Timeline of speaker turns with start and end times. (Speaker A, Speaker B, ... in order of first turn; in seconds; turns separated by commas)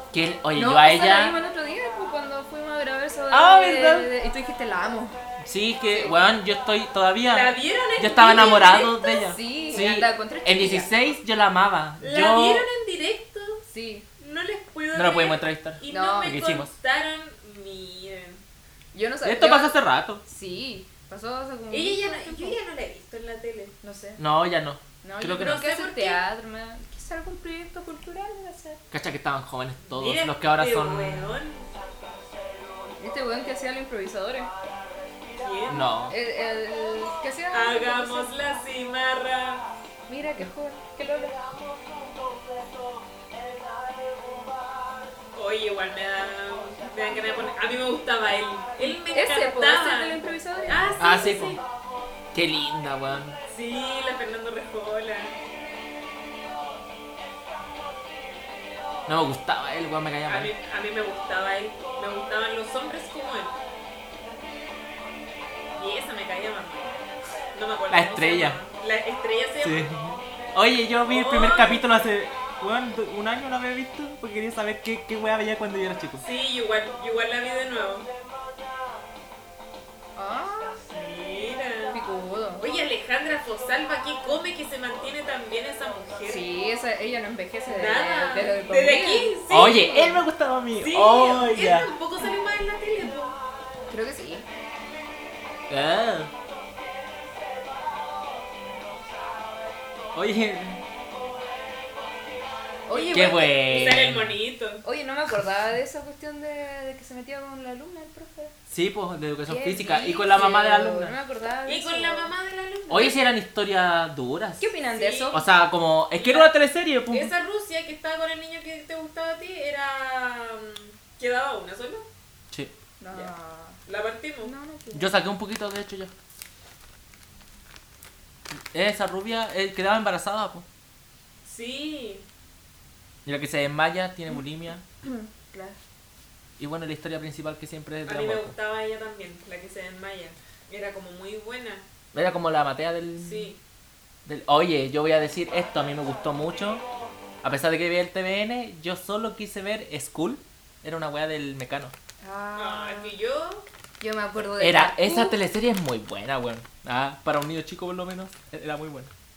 Speaker A: 0.1-1.4, Speaker B: 0.5-5.2, Speaker A: 3.3-4.1, Speaker A: 5.4-12.7, Speaker B: 5.9-6.2, Speaker C: 7.3-9.0, Speaker B: 8.6-10.9, Speaker C: 12.0-13.6, Speaker B: 13.7-14.1, Speaker C: 14.2-18.4, Speaker A: 14.9-16.7, Speaker B: 15.9-16.4, Speaker B: 18.9-22.6, Speaker A: 19.2-20.2, Speaker C: 21.7-23.8, Speaker B: 23.8-24.2, Speaker A: 24.2-25.6, Speaker B: 25.0-28.8, Speaker C: 25.3-26.2, Speaker A: 28.9-31.4, Speaker C: 29.9-31.7, Speaker B: 33.0-34.5, Speaker C: 35.3-35.9, Speaker A: 35.7-36.1, Speaker B: 36.1-38.3, Speaker C: 37.5-39.7, Speaker B: 40.1-41.5, Speaker C: 45.3-51.6, Speaker B: 49.0-51.1, Speaker A: 51.0-51.6, Speaker A: 52.3-53.4, Speaker C: 53.5-55.4, Speaker A: 59.1-60.5, Speaker C: 60.3-63.6, Speaker C: 65.8-67.0, Speaker C: 67.5-69.9, Speaker A: 67.9-68.6, Speaker A: 69.6-76.2, Speaker C: 71.1-71.9, Speaker C: 76.2-78.1, Speaker B: 80.2-80.8, Speaker C: 80.9-82.0, Speaker B: 81.9-82.7, Speaker C: 82.6-86.5, Speaker B: 86.3-90.2, Speaker C: 87.7-90.0, Speaker A: 89.5-91.9, Speaker C: 90.8-93.4, Speaker B: 93.9-94.5, Speaker A: 95.7-96.3, Speaker A: 100.1-100.8, Speaker B: 102.9-104.0, Speaker C: 102.9-104.8, Speaker A: 103.1-104.4, Speaker B: 104.8-108.5, Speaker A: 108.7-111.2, Speaker B: 109.5-112.3, Speaker C: 111.7-113.2, Speaker A: 112.9-114.7, Speaker B: 114.6-115.4, Speaker C: 114.9-115.4, Speaker A: 115.3-117.3, Speaker C: 116.2-116.5, Speaker C: 117.1-122.1, Speaker B: 123.0-123.8, Speaker C: 123.9-124.5, Speaker B: 124.4-125.1, Speaker A: 124.9-126.1, Speaker A: 128.5-130.7, Speaker C: 131.4-132.3, Speaker A: 133.2-134.8, Speaker B: 135.0-135.8, Speaker A: 136.6-138.6, Speaker C: 138.1-141.8, Speaker A: 142.1-143.5, Speaker C: 143.2-143.6, Speaker A: 144.3-146.8, Speaker A: 147.4-151.9, Speaker B: 152.2-153.1, Speaker C: 152.6-153.7, Speaker B: 154.0-155.4, Speaker A: 154.6-159.1